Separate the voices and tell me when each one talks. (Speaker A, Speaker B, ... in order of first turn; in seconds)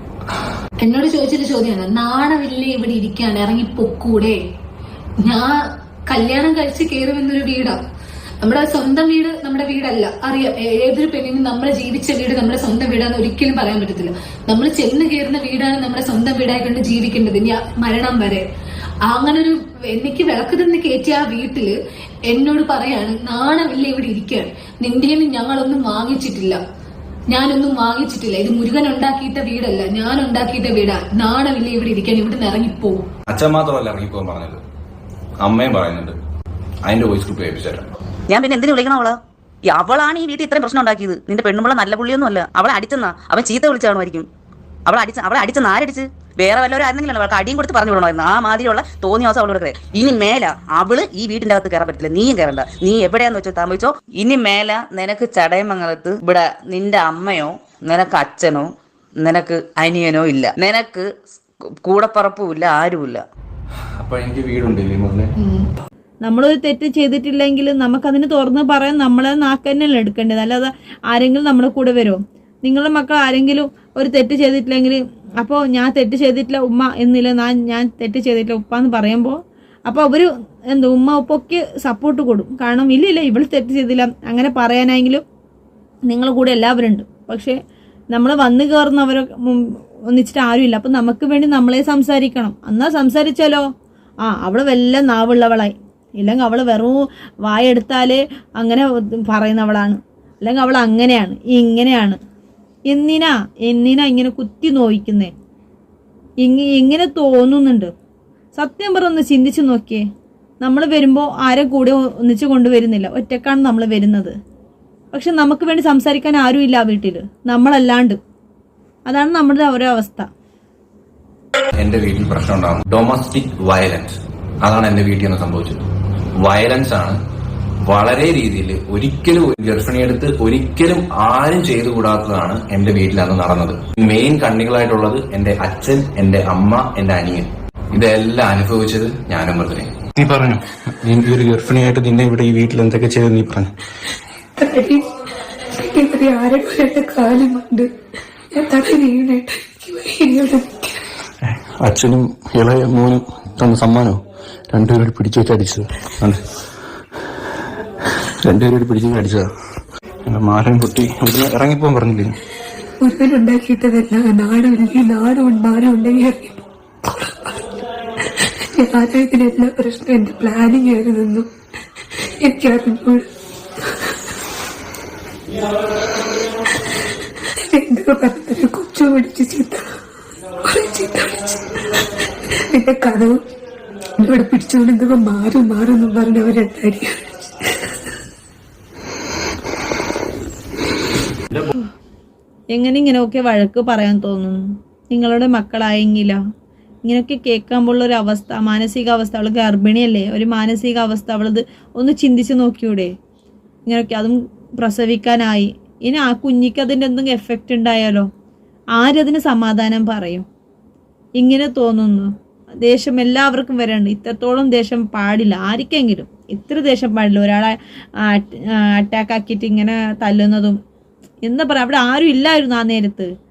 Speaker A: 0.8-4.4, 5.2-5.5, 6.1-7.8, 8.4-18.4, 19.1-21.8, 22.3-26.6, 27.3-33.0
Speaker B: 33.3-34.6, 35.4-36.2, 36.9-37.9, 64.0-65.3, 121.8-125.8, 126.4-127.2, 127.9-139.9
Speaker C: 38.3-44.3, 44.9-61.1, 61.8-63.2
Speaker D: 66.2-85.2, 86.1-87.6, 88.1-93.7, 94.3-102.2, 102.9-105.3, 106.4-107.9, 108.6-110.0, 110.6-114.3, 115.1-118.2, 119.1-120.3, 192.7-196.4, 197.1-203.1, 203.9-208.3, 209.0-210.5, 211.4-212.3, 212.8-220.8, 221.4-223.3
Speaker E: 140.2-143.7, 151.4-154.2, 154.7-156.4, 158.4-159.5, 160.3-162.4
Speaker F: 144.6-147.9, 148.5-151.0, 163.0-171.5, 172.1-174.3, 176.2-179.9, 180.6-183.4, 184.2-188.2